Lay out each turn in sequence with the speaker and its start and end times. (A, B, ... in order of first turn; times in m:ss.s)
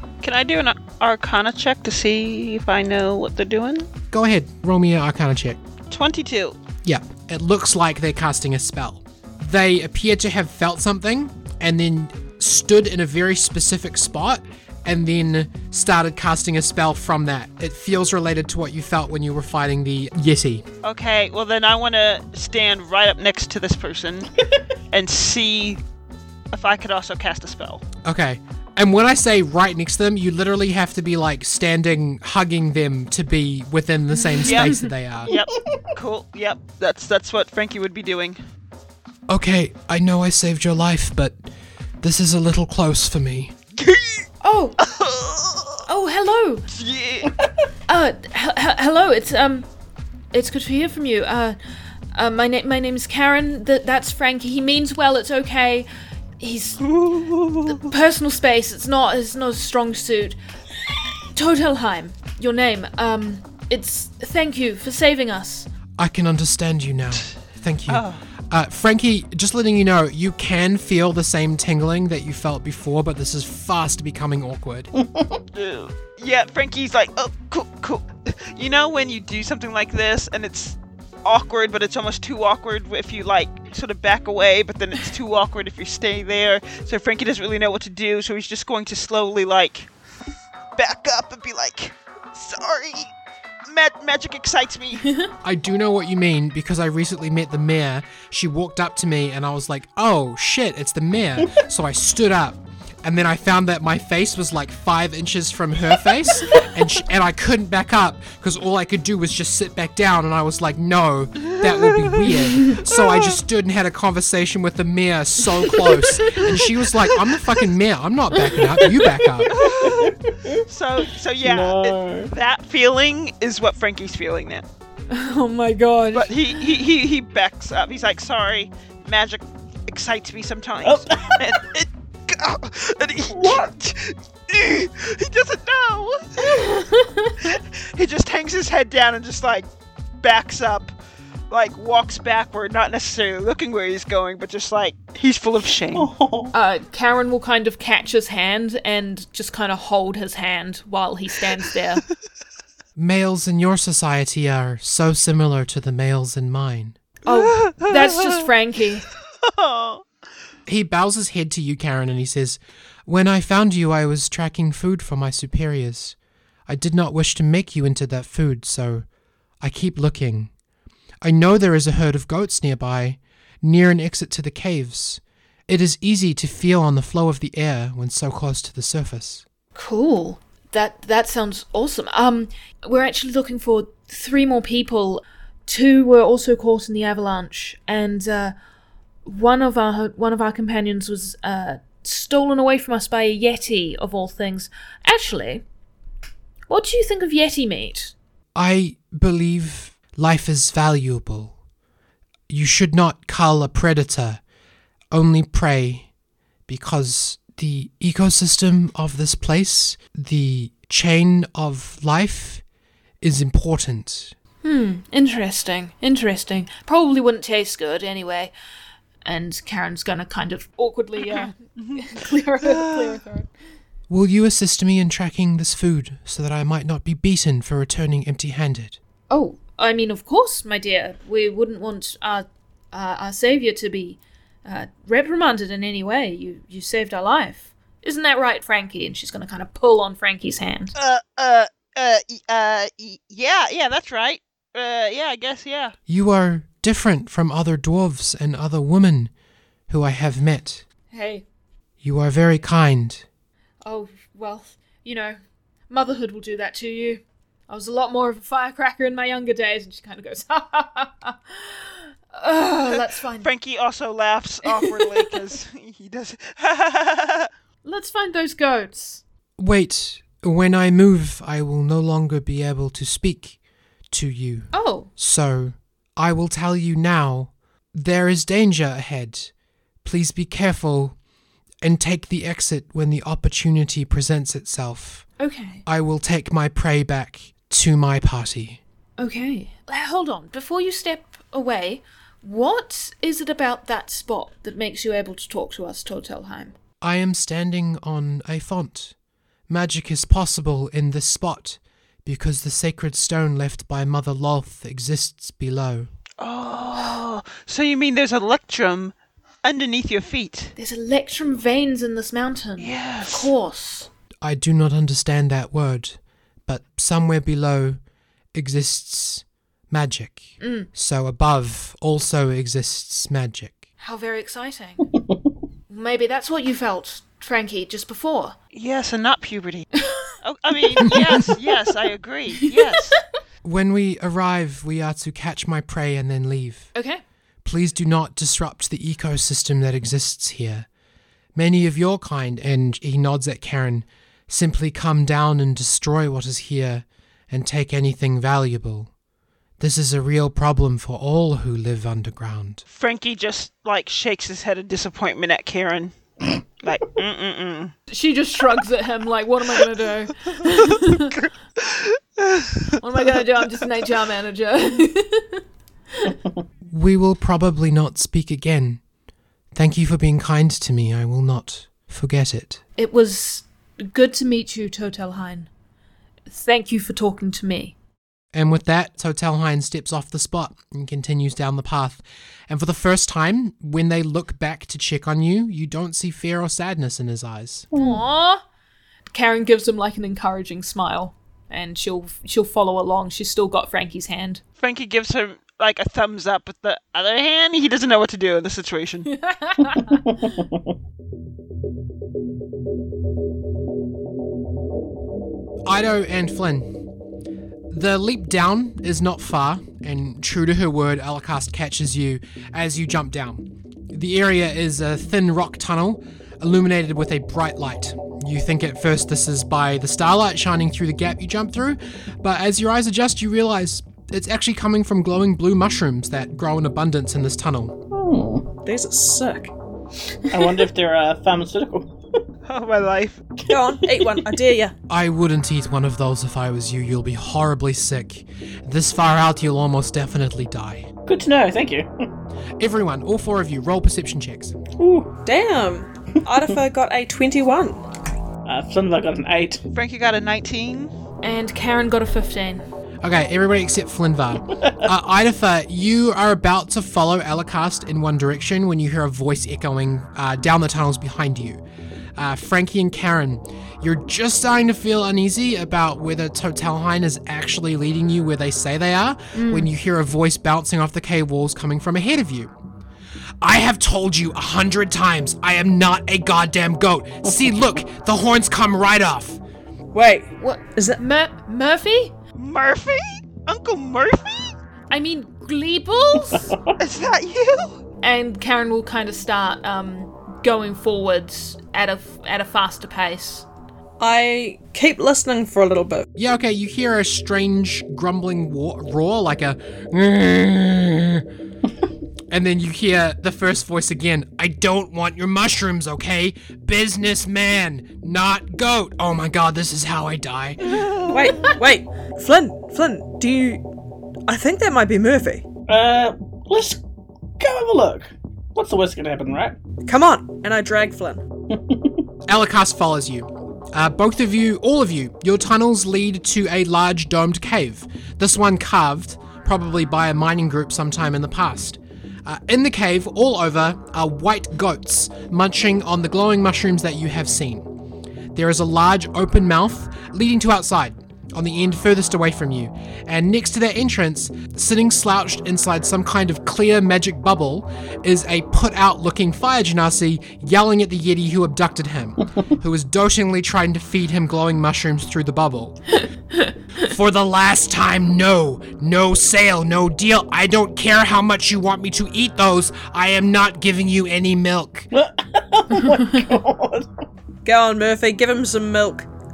0:00.2-0:03.9 A
0:04.1-0:05.6 B
0:05.9-0:06.6 A
0:06.8-0:20.6 B
0:20.8-0:24.3 A
0:24.9-0:25.8 A
0:26.5-0:27.8 A
0:28.0-0:35.3 B
0:34.2-0:34.9 C
0:34.4-0:34.7 A
0:35.2-0:38.4 A
0:35.3-0:35.8 D
0:39.3-0:41.4 B
0:42.0-0:43.5 B
0:43.8-0:44.2 A
0:44.4-0:44.8 C
0:44.8-0:45.8 A
0:45.8-0:46.7 C
0:46.7-0:47.3 A
0:47.9-0:49.7 C
0:50.3-0:51.6 C
0:52.1-0:55.9 C
0:56.4-0:56.9 C
0:56.8-0:57.9 A
0:57.7-1:00.4 C
1:01.3-1:05.7 C
1:06.0-1:14.9 B
1:07.9-1:08.2 A
1:14.9-1:15.4 D
1:15.5-1:29.9 A
1:30.7-1:33.1 A
1:33.7-1:35.1 A
1:35.4-1:59.6 B
1:51.5-1:53.2 A
1:58.5-1:59.3 C
1:59.5-2:00.1 A
1:59.8-2:00.6 D
2:00.6-2:04.6 A
2:01.4-2:02.3 D
2:05.1-2:06.6 C
2:06.1-2:16.8 A
2:10.8-2:11.5 D
2:13.3-2:13.7 D
2:16.4-2:17.4 C
2:17.4-2:19.7 A
2:20.2-2:20.9 A
2:21.5-2:26.1 A
2:25.9-2:26.5 D
2:26.5-2:32.0 C
2:33.0-2:37.0 B
2:37.2-2:39.1 C
2:37.3-2:38.5 A
2:39.4-2:40.0 A
2:40.7-2:46.2 B
2:46.7-2:49.0 B
2:49.6-2:50.5 B
2:51.2-2:59.4 B
2:59.7-3:08.5 C
3:09.2-3:15.6 C
3:16.7-3:18.1 C
3:18.5-3:21.5 B
3:22.5-3:24.4 B
3:25.1-3:26.1 B
3:26.7-3:32.6 B
3:33.2-3:34.3 B
3:34.6-3:38.5 C
3:39.2-3:43.5 C
3:41.2-3:43.2 A
3:44.1-3:49.0 B
3:49.3-4:00.9 C
4:01.0-4:06.0 A
4:06.1-4:09.3 B
4:09.9-4:10.8 B
4:11.1-4:11.4 C
4:12.0-4:13.2 B
4:13.8-4:15.4 C
4:15.9-4:23.5 C
4:23.4-4:27.5 A
4:24.6-4:25.4 C
4:27.8-4:29.2 C
4:29.6-4:33.6 B
4:34.1-4:39.5 B
4:34.7-4:35.1 C
4:40.0-4:41.1 B
4:41.8-4:45.3 B
4:45.4-4:45.8 C
4:45.8-4:48.8 B
4:49.2-4:56.7 C
4:57.0-4:59.1 B
4:59.7-5:06.1 B
5:06.4-5:10.7 A
5:10.8-5:14.1 C
5:12.8-5:13.5 A
5:14.4-5:18.0 B
5:18.5-5:23.8 B
5:20.6-5:20.9 C
5:24.0-5:25.1 C
5:25.9-5:28.5 C
5:28.7-5:29.9 A
5:30.4-5:33.2 A
5:32.6-5:33.0 C
5:33.6-5:36.9 B
5:36.9-5:37.2 C
5:37.6-5:40.9 B
5:41.5-5:49.1 B
5:49.8-5:52.8 B
5:52.9-5:56.1 A
5:56.8-5:57.9 A
5:58.1-6:01.4 C
6:00.6-6:02.9 A
6:03.0-6:05.6 C
6:06.9-6:09.0 B
6:09.7-6:12.8 B
6:13.0-6:15.7 C
6:16.5-6:17.9 C
6:18.5-6:27.8 B
6:27.9-6:28.2 D
6:27.9-6:28.6 C
6:29.3-6:34.6 C
6:34.8-6:39.3 A
6:39.3-6:40.2 C
6:40.1-6:40.8 D
6:45.8-6:47.0 B
6:47.9-7:08.0 B
7:08.1-7:08.7 D
7:08.8-7:09.7 E
7:10.5-7:12.1 D
7:12.7-7:13.4 A
7:13.7-7:14.5 D
7:13.7-7:14.9 E
7:15.1-7:21.1 B
7:21.2-7:22.3 D
7:22.8-7:24.8 B
7:25.0-7:25.3 D
7:25.4-7:28.0 E
7:28.6-7:29.8 D
7:29.9-7:31.1 A
7:31.4-7:32.8 C
7:33.2-7:41.8 B
7:42.4-7:52.7 B
7:49.5-7:49.9 C
7:53.6-7:59.6 B
8:00.1-8:01.2 E
8:00.6-8:02.3 C
8:02.6-8:04.8 A
8:05.1-8:06.7 C
8:07.0-8:08.0 A
8:08.2-8:13.6 C
8:14.2-8:16.2 E
8:16.4-8:21.4 B
8:22.5-8:31.0 B
8:31.0-8:31.7 A
8:31.3-8:33.8 E
8:34.5-8:35.6 E
8:35.9-8:37.0 D
8:37.6-8:39.8 D
8:40.0-8:41.4 E
8:41.7-8:42.2 D
8:42.5-8:57.9 B
8:58.5-9:16.0 B
9:17.0-9:25.1 B
9:25.1-9:27.1 D
9:27.6-9:29.3 E